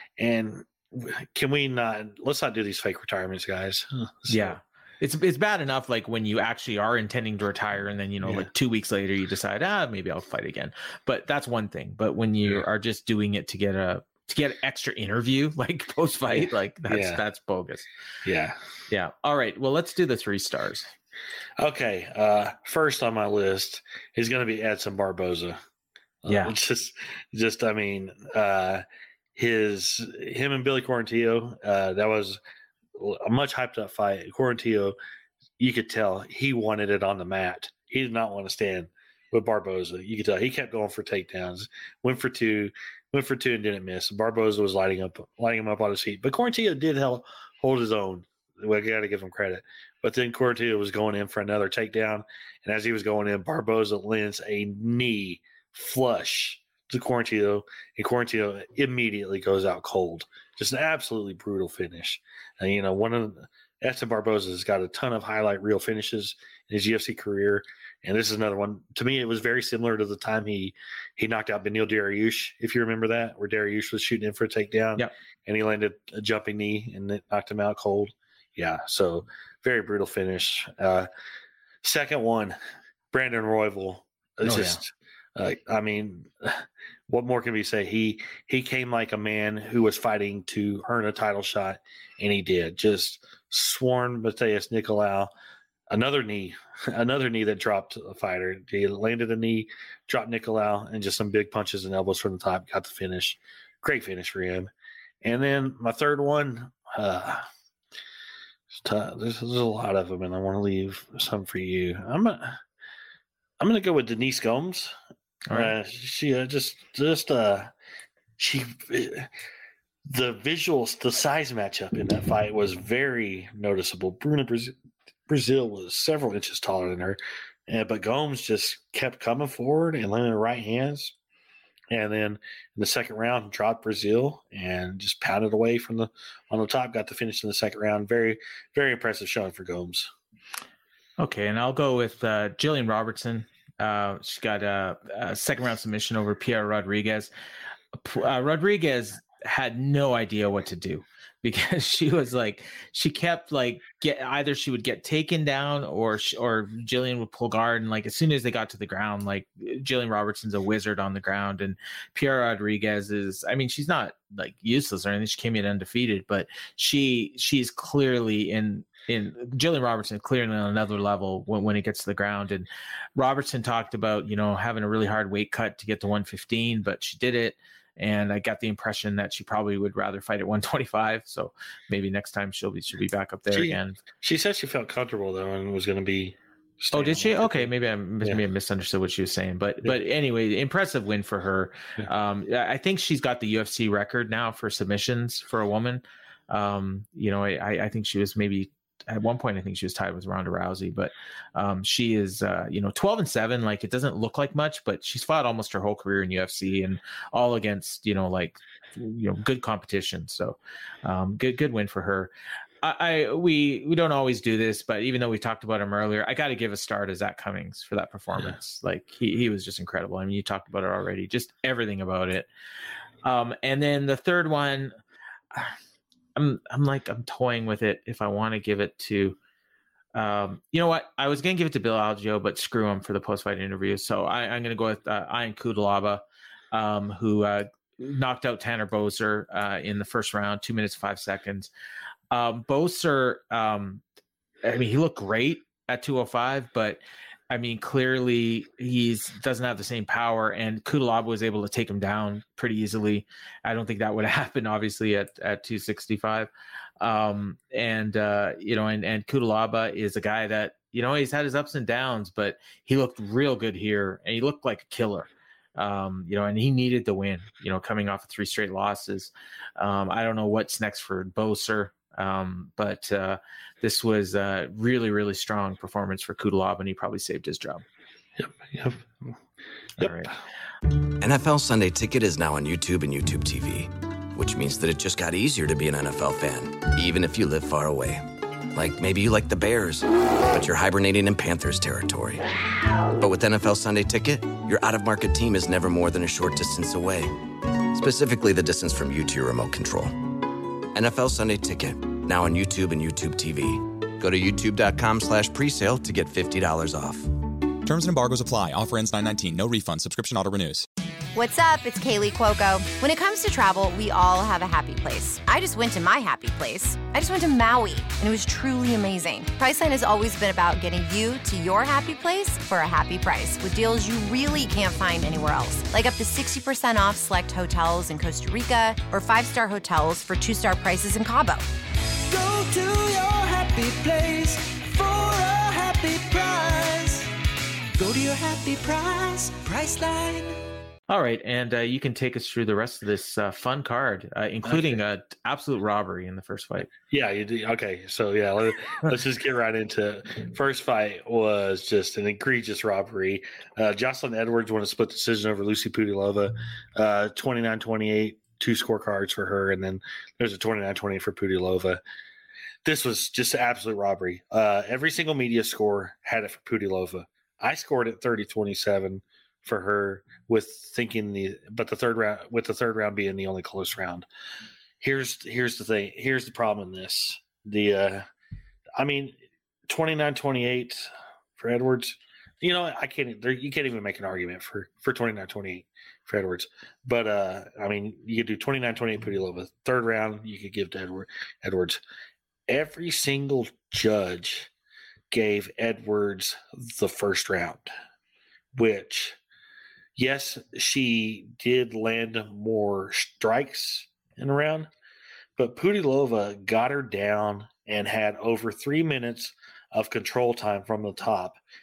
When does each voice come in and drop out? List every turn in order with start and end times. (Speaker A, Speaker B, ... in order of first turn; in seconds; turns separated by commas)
Speaker A: 0.2-4.6, Speaker B: 4.3-17.9, Speaker A: 8.2-8.5, Speaker A: 16.3-17.2, Speaker A: 18.2-18.6, Speaker B: 18.9-20.9, Speaker A: 21.6-25.6, Speaker A: 26.2-28.8, Speaker B: 26.3-26.6, Speaker A: 29.4-32.4, Speaker A: 33.0-35.0, Speaker A: 35.6-81.1, Speaker A: 81.8-82.6, Speaker A: 83.1-95.3, Speaker B: 84.5-84.8, Speaker A: 95.9-104.7, Speaker A: 105.2-107.5, Speaker A: 108.8-112.6, Speaker A: 113.6-114.9, Speaker B: 115.5-115.7, Speaker A: 115.5-117.7, Speaker A: 118.4-119.3, Speaker A: 120.1-124.7, Speaker A: 125.3-131.1, Speaker A: 131.9-140.1, Speaker B: 141.2-147.3, Speaker B: 147.9-184.0, Speaker A: 183.5-187.7, Speaker B: 186.9-222.5, Speaker B: 223.2-225.0, Speaker B: 226.4-229.4, Speaker B: 230.2-241.7, Speaker B: 242.3-244.0, Speaker B: 244.6-256.5, Speaker B: 257.0-277.8, Speaker A: 278.4-279.4, Speaker A: 280.0-280.4, Speaker B: 280.0-280.3, Speaker C: 281.2-288.2, Speaker C: 288.7-292.5, Speaker C: 293.2-297.4, Speaker C: 297.9-300.1, Speaker C: 300.9-307.4, Speaker D: 307.8-310.9, Speaker E: 311.3-331.7, Speaker F: 332.3-337.3, Speaker F: 338.0-340.6, Speaker B: 341.1-346.9, Speaker A: 344.6-345.0, Speaker A: 347.1-362.0, Speaker A: 362.9-374.3, Speaker A: 375.0-378.3, Speaker A: 379.0-379.4, Speaker A: 379.9-392.0, Speaker A: 392.7-394.7, Speaker A: 395.3-397.9, Speaker A: 398.8-399.4, Speaker A: 400.2-404.9, Speaker A: 405.6-411.6